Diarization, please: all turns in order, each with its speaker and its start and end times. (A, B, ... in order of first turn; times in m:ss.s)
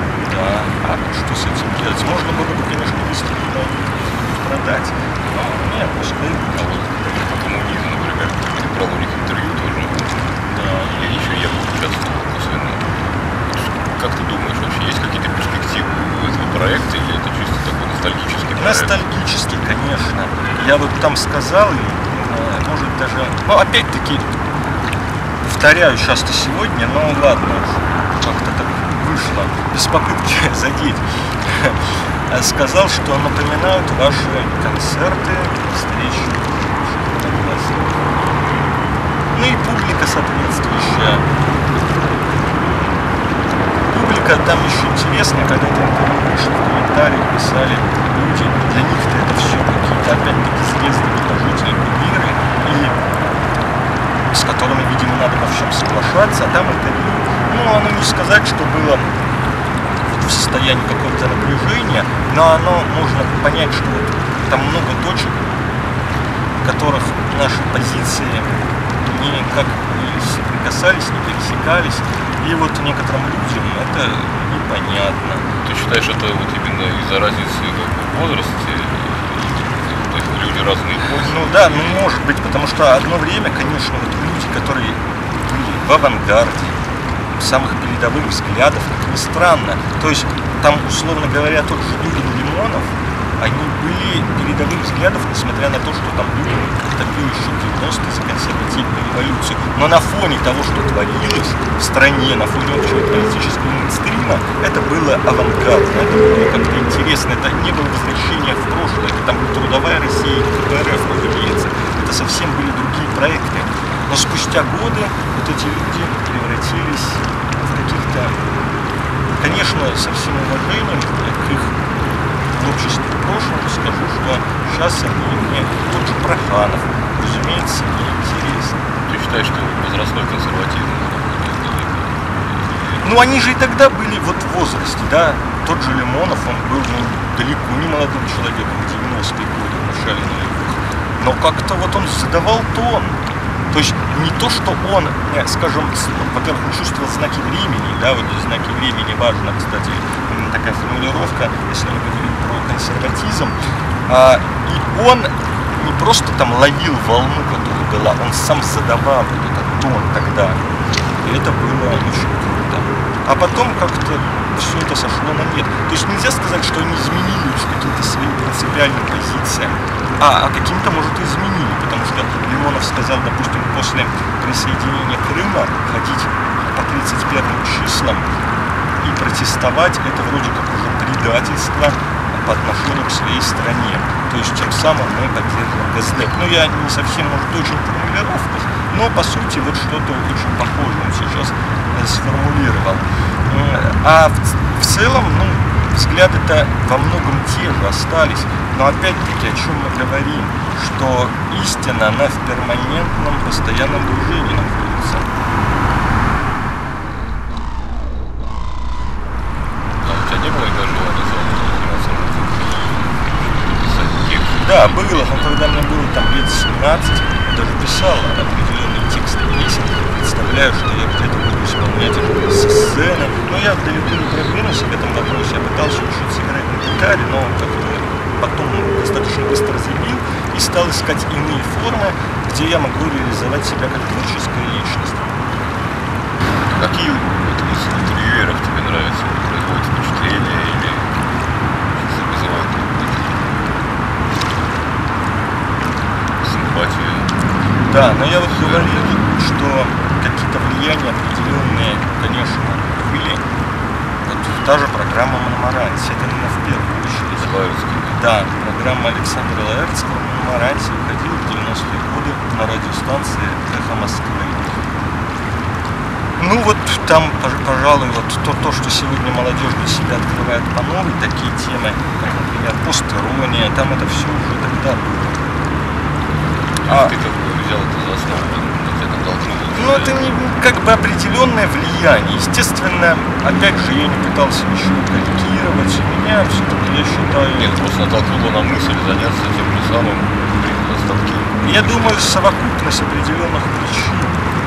0:00.3-0:06.9 A
0:06.6-0:10.4 B
0:10.5-0:11.0 A
0:10.9-0:19.0 B
0:18.6-0:24.4 A
0:25.4-0:38.1 A
0:39.3-0:41.3 A
0:43.8-0:53.0 A
0:54.3-0:59.1 A
1:00.1-1:05.5 A
1:06.6-1:15.4 A
1:15.6-1:22.0 B
1:21.2-1:26.8 A
1:27.4-1:58.4 A
1:59.4-2:01.8 A
2:02.5-2:08.8 A
2:09.1-2:13.0 B
2:13.0-2:23.2 A
2:23.7-2:33.6 A
2:34.1-2:40.6 A
2:41.2-2:58.3 A
2:59.0-3:25.3 A
3:30.0-3:35.5 B
3:34.6-3:55.4 A
3:56.7-4:03.8 B
4:06.4-4:07.4 B
4:07.9-4:13.4 A
4:08.4-4:09.0 B
4:14.2-4:17.5 A
4:17.4-4:18.2 B
4:18.1-4:24.8 A
4:26.4-4:35.4 A
4:36.8-4:40.3 B
4:36.9-4:37.2 A
4:39.7-4:47.8 A
4:47.6-4:52.5 B
4:51.6-4:54.4 A